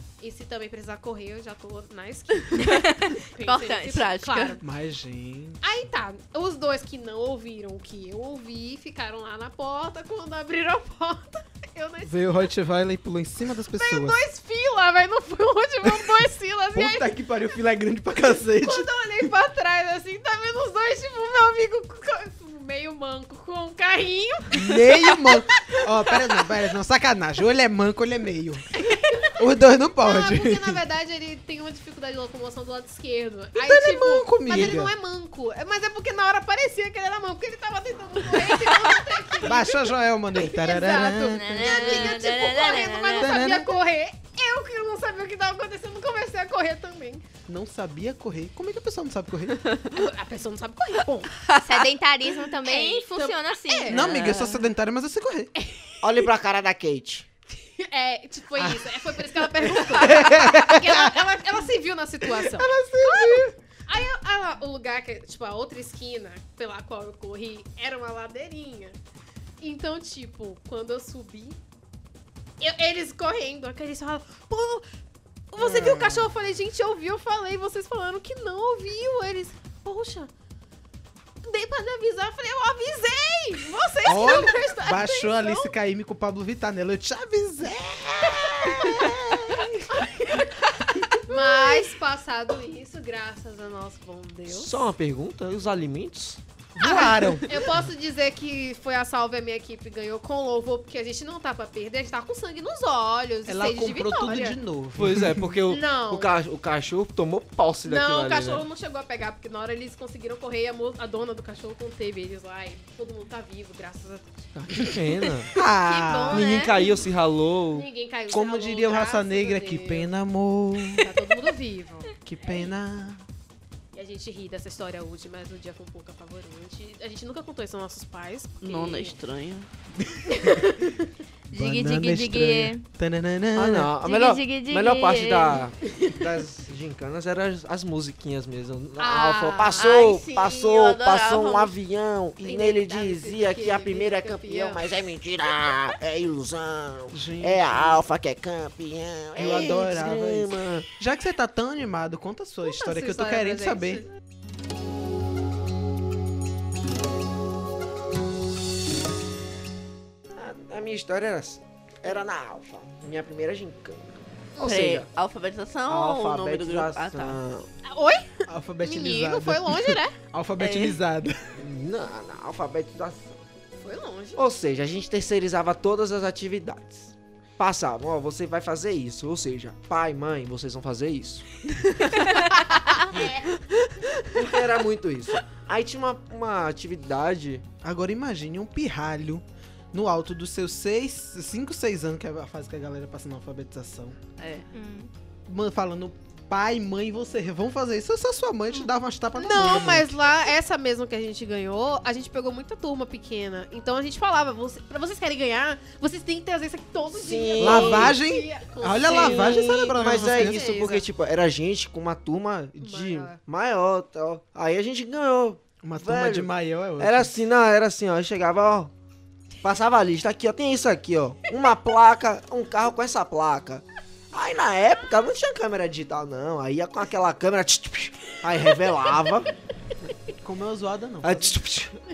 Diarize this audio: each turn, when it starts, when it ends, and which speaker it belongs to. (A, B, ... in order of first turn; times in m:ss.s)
0:00.2-0:04.6 A
0:02.6-0:03.2 B
0:03.4-0:04.6 C
0:04.6-0:05.6 D
0:05.6-0:12.4 A
0:12.1-0:14.2 D
0:13.7-0:17.1 A
0:15.9-0:16.2 D
0:16.7-0:18.9 D
0:18.6-0:26.4 A
0:24.5-0:28.7 D
0:28.7-0:29.3 A
0:29.4-0:30.8 D
0:30.0-0:47.2 A
0:33.6-0:34.9 D
0:39.4-0:42.1 D
0:41.2-0:43.5 B
0:43.2-0:43.7 D
0:47.5-0:49.7 D
0:49.9-0:51.3 A
0:51.5-0:51.8 C
0:51.6-0:54.1 B
0:52.6-0:54.0 A
0:53.9-0:55.5 D
0:53.9-0:54.7 C
0:55.6-0:56.3 A
0:56.0-0:57.3 E
0:57.5-1:09.0 A
0:59.8-1:01.2 D
1:02.2-1:03.6 D
1:09.6-1:11.6 A
1:12.6-1:14.8 A
1:15.5-1:20.3 A
1:15.6-1:16.3 D
1:21.4-1:25.7 A
1:24.1-1:30.0 D
1:29.9-1:34.8 A
1:31.0-1:31.8 D
1:34.5-1:36.4 E
1:36.8-1:37.6 D
1:36.8-1:44.6 A
1:43.5-1:45.6 D
1:45.0-1:48.7 E
1:45.7-1:46.4 A
1:47.8-1:54.9 A
1:54.6-1:55.5 E
1:55.5-1:56.6 D
1:55.9-1:56.8 B
1:56.3-1:57.9 E
1:57.7-2:00.1 A
1:58.3-2:01.1 D
2:01.0-2:02.6 A
2:02.2-2:03.2 D
2:03.9-2:09.2 A
2:08.6-2:09.7 C
2:10.1-2:10.7 D
2:10.3-2:11.1 A
2:11.5-2:12.8 B
2:11.5-2:13.9 D
2:13.6-2:30.9 E
2:14.0-2:15.7 B
2:19.0-2:20.0 A
2:19.8-2:21.8 C
2:22.4-2:24.8 A
2:27.1-2:28.0 D
2:29.4-2:34.0 D
2:32.6-2:34.1 A
2:40.3-2:45.1 E
2:44.6-2:47.4 C
2:45.9-2:47.7 E
2:47.8-2:50.2 A
2:48.5-2:51.6 D
2:50.6-2:51.0 C
2:51.6-2:53.4 E
2:53.8-2:54.4 A
2:54.4-3:01.5 E
3:02.9-3:03.5 A
3:04.3-3:07.7 E
3:07.8-3:14.2 D
3:14.4-3:14.7 C
3:14.7-3:15.1 B
3:15.5-3:20.2 D
3:19.4-3:31.1 A
3:27.1-3:28.2 E
3:27.6-3:30.7 D
3:29.1-3:38.9 E
3:32.8-3:33.4 A
3:35.8-3:37.3 D
3:39.6-3:49.5 E
3:50.3-3:51.6 D
3:51.2-3:52.0 E